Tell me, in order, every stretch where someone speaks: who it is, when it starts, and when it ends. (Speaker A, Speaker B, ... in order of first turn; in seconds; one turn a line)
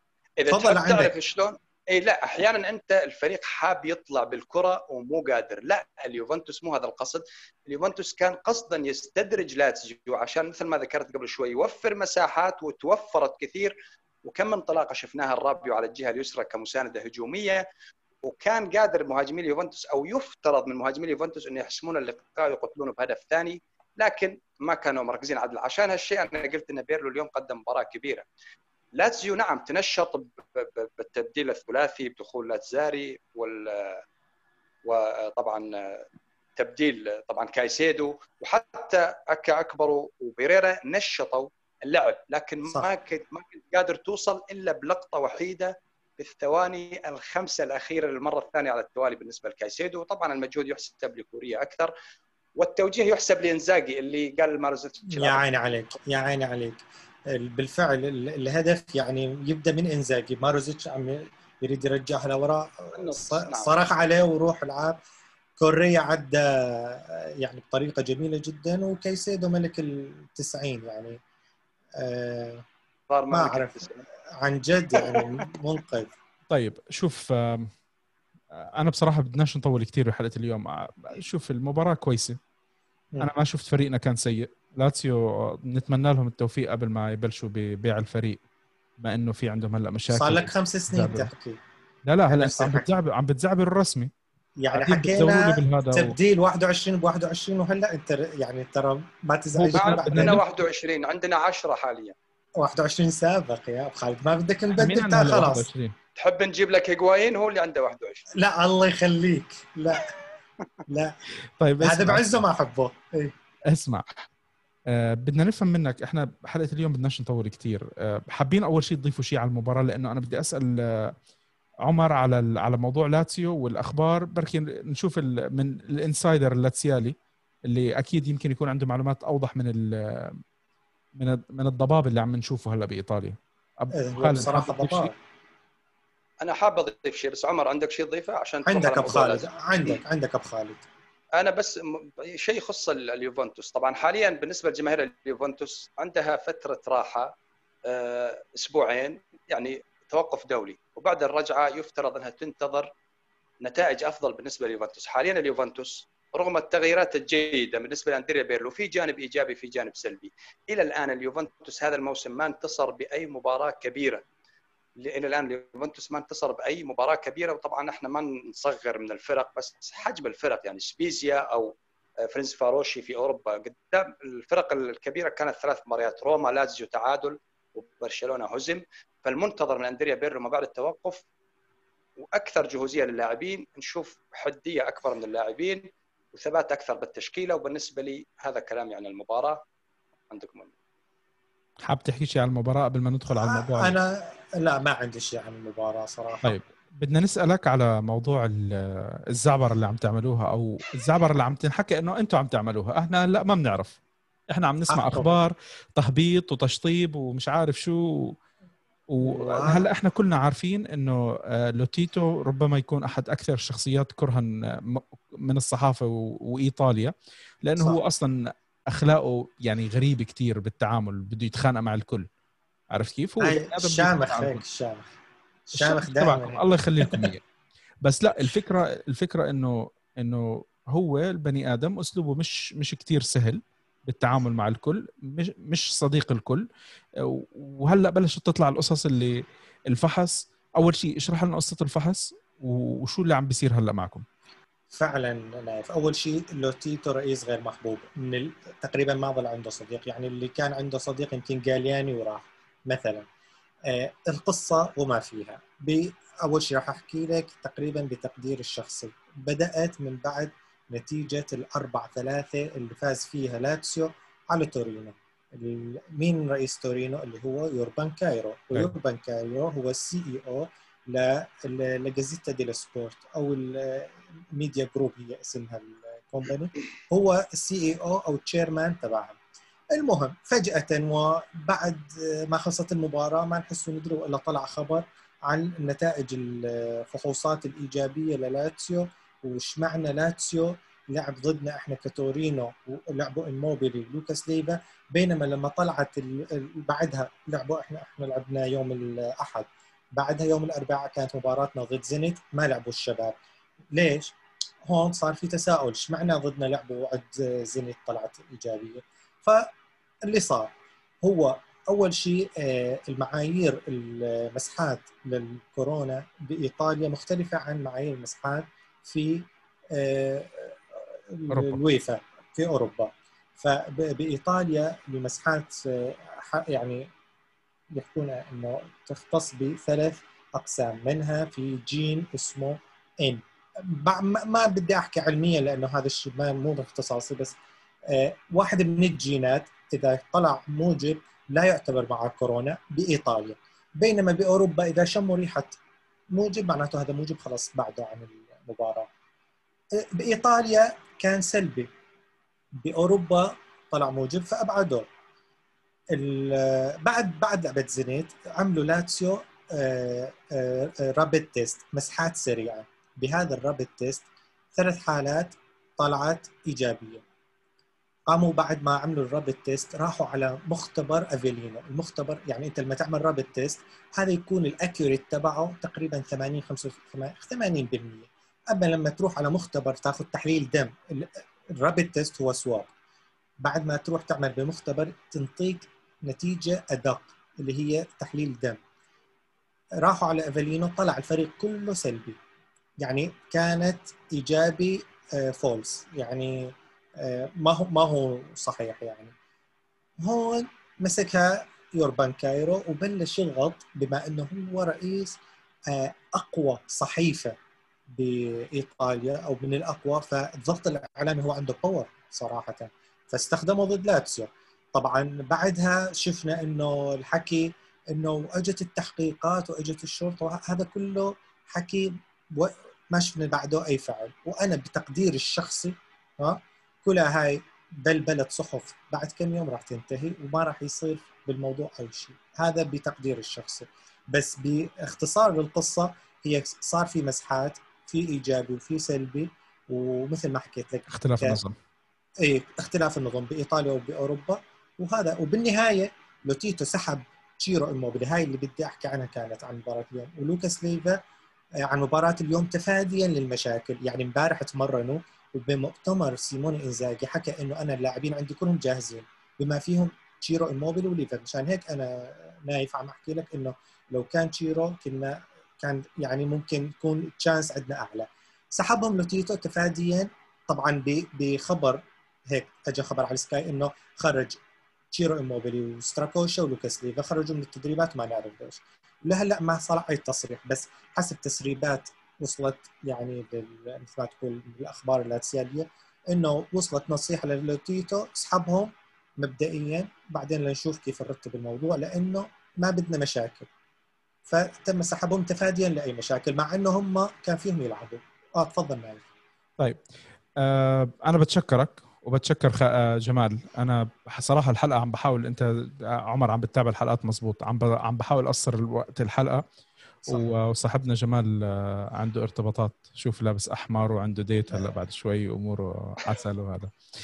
Speaker A: 0.4-17.6
Speaker B: 0.5-1.1
Speaker A: 18.2-28.2
Speaker A: 29.0-34.0
Speaker A: 34.8-36.0
Speaker A: 36.6-51.9
Speaker A: 52.6-55.5
Speaker B: 55.1-65.0
Speaker A: 62.9-63.7
Speaker B: 65.6-71.2
Speaker B: 72.0-72.7
Speaker A: 73.1-74.0
Speaker B: 73.3-76.1
Speaker A: 75.0-75.3
Speaker C: 76.5-77.7
Speaker C: 78.6-82.4
Speaker C: 83.2-88.4
Speaker C: 89.0-91.3
Speaker B: 90.1-91.6
Speaker C: 92.0-94.1
Speaker B: 92.3-92.9
Speaker B: 94.6-100.4
Speaker C: 94.7-96.2
Speaker C: 99.6-100.4
Speaker A: 99.7-102.2
Speaker B: 102.6-105.7
Speaker C: 104.8-105.9
Speaker A: 106.2-108.3
Speaker B: 108.3-110.1
Speaker B: 110.9-111.2
Speaker C: 111.6-112.4
Speaker B: 111.8-113.3
Speaker C: 113.7-114.1
Speaker C: 114.9-121.1
Speaker C: 121.8-127.2
Speaker C: 127.7-130.4
Speaker C: 131.2-135.1
Speaker B: 133.9-135.1
Speaker A: 136.4-139.5
Speaker B: 138.7-140.8
Speaker A: 141.4-147.3
Speaker A: 147.9-152.9
Speaker A: 153.6-164.2
Speaker A: 165.0-171.7
Speaker A: 172.2-181.2
Speaker A: 182.2-189.6
Speaker A: 190.3-190.7
Speaker C: 191.8-194.0
Speaker B: 193.3-196.6
Speaker C: 196.4-204.0
Speaker C: 204.5-208.3
Speaker B: 204.9-205.4
Speaker C: 209.1-217.1
Speaker B: 209.2-209.9
Speaker C: 217.6-222.3
Speaker C: 222.9-224.6
Speaker B: 223.4-225.1
Speaker B: 225.7-227.3
Speaker C: 225.8-227.4
Speaker C: 228.0-236.6
Speaker C: 237.2-244.2
Speaker B: 244.9-253.3
Speaker B: 253.9-279.4
Speaker B: 279.9-303.4
Speaker B: 303.9-304.4
Speaker B: 304.9-309.7
Speaker B: 310.2-327.1
Speaker C: 321.5-321.8
Speaker B: 327.9-345.8
Speaker B: 346.3-349.1
Speaker B: 350.0-351.9
Speaker B: 352.8-355.1
Speaker B: 356.1-367.2
Speaker B: 368.3-382.9
Speaker B: 383.6-388.8
Speaker B: 390.0-392.4
Speaker B: 393.0-399.3
Speaker B: 400.2-407.6
Speaker B: 408.1-441.6
Speaker C: 441.1-441.8
Speaker B: 442.4-451.2
Speaker B: 451.8-474.6
Speaker B: 475.1-493.7
Speaker B: 494.5-499.2
Speaker C: 500.6-509.6
Speaker C: 510.3-516.9
Speaker B: 510.3-510.6
Speaker B: 514.7-515.0